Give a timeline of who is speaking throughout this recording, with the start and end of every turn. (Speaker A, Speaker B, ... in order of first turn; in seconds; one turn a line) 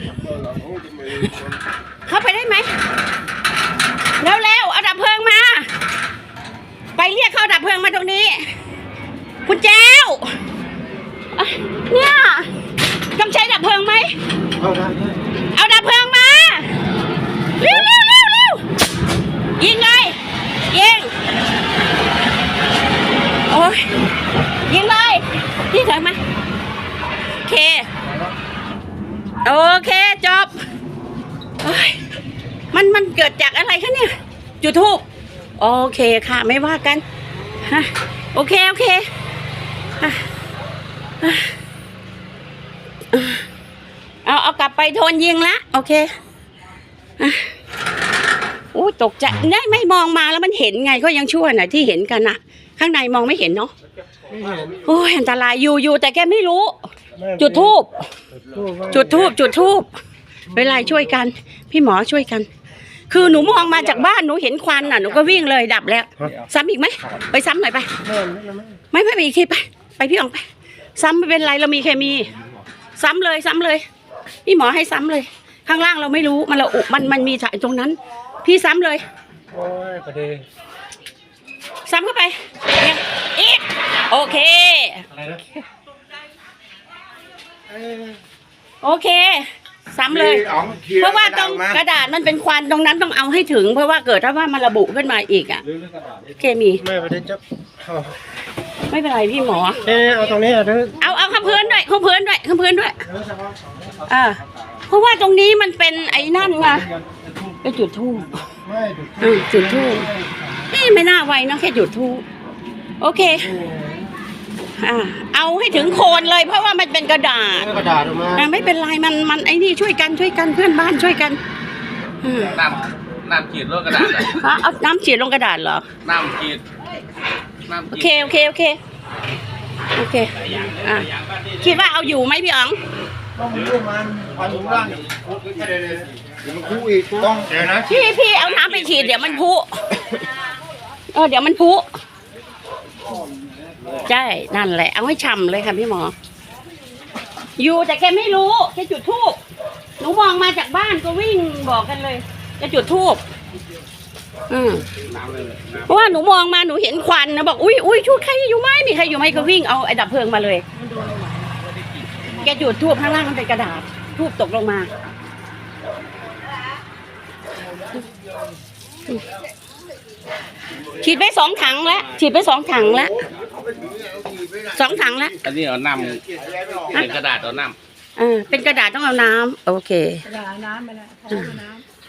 Speaker A: 0.5-1.3
Speaker B: 2.0-2.7
Speaker B: 4.2-5.7
Speaker B: 7.0-8.5
Speaker B: 9.4-10.4
Speaker B: 11.3-12.5
Speaker B: 13.1-14.1
Speaker A: 14.6-14.9
Speaker B: 15.5-16.8
Speaker B: 17.6-18.6
Speaker B: 19.6-20.1
Speaker B: 20.7-21.1
Speaker B: 23.5-23.9
Speaker B: 24.6-26.2
Speaker B: 27.4-27.9
Speaker B: 29.4-30.5
Speaker B: 31.6-32.0
Speaker B: 32.7-35.0
Speaker B: 35.6-37.0
Speaker B: 37.6-39.0
Speaker B: 40.0-40.2
Speaker B: 41.2-41.5
Speaker B: 43.1-43.4
Speaker B: 44.2-46.1
Speaker B: 47.2-47.5
Speaker B: 48.7-53.7
Speaker A: 54.3-54.8
Speaker B: 54.8-58.0
Speaker A: 57.1-57.7
Speaker A: 58.4-59.3
Speaker B: 58.9-59.9
Speaker B: 60.5-62.5
Speaker B: 63.1-68.0
Speaker A: 68.0-68.8
Speaker B: 68.9-70.4
Speaker B: 71.0-72.3
Speaker B: 73.0-73.8
Speaker B: 74.4-79.0
Speaker A: 79.5-80.4
Speaker B: 81.9-85.1
Speaker A: 85.1-85.4
Speaker A: 87.7-88.2
Speaker B: 88.8-95.6
Speaker A: 90.3-91.7
Speaker B: 96.3-96.8
Speaker A: 96.8-98.2
Speaker B: 98.9-99.8
Speaker A: 99.8-101.0
Speaker B: 101.0-103.0
Speaker A: 103.1-103.8
Speaker B: 104.1-106.9
Speaker B: 107.6-108.5
Speaker A: 108.6-110.5
Speaker B: 109.2-110.1
Speaker B: 110.7-112.2
Speaker B: 113.0-113.6
Speaker A: 113.4-114.1
Speaker B: 114.8-117.8
Speaker A: 117.7-118.5
Speaker B: 118.3-121.4
Speaker B: 122.2-122.6
Speaker C: 122.5-124.4
Speaker B: 124.0-125.9
Speaker C: 126.0-126.6
Speaker C: 127.7-128.3
Speaker B: 127.9-128.8
Speaker B: 129.9-132.8
Speaker C: 130.4-131.8
Speaker A: 133.4-137.9
Speaker B: 137.8-140.2
Speaker C: 138.2-139.4
Speaker B: 141.1-141.9
Speaker B: 144.0-146.1
Speaker B: 147.6-149.4
Speaker B: 150.0-153.2
Speaker B: 154.5-154.9
Speaker C: 155.0-156.0
Speaker B: 155.9-160.7
Speaker D: 160.8-161.5
Speaker C: 161.8-162.1
Speaker B: 162.3-164.9
Speaker B: 171.0-173.2
Speaker A: 173.9-174.6
Speaker B: 174.7-175.4
Speaker C: 175.4-177.8
Speaker B: 178.2-180.3
Speaker D: 180.3-181.8
Speaker B: 181.3-181.6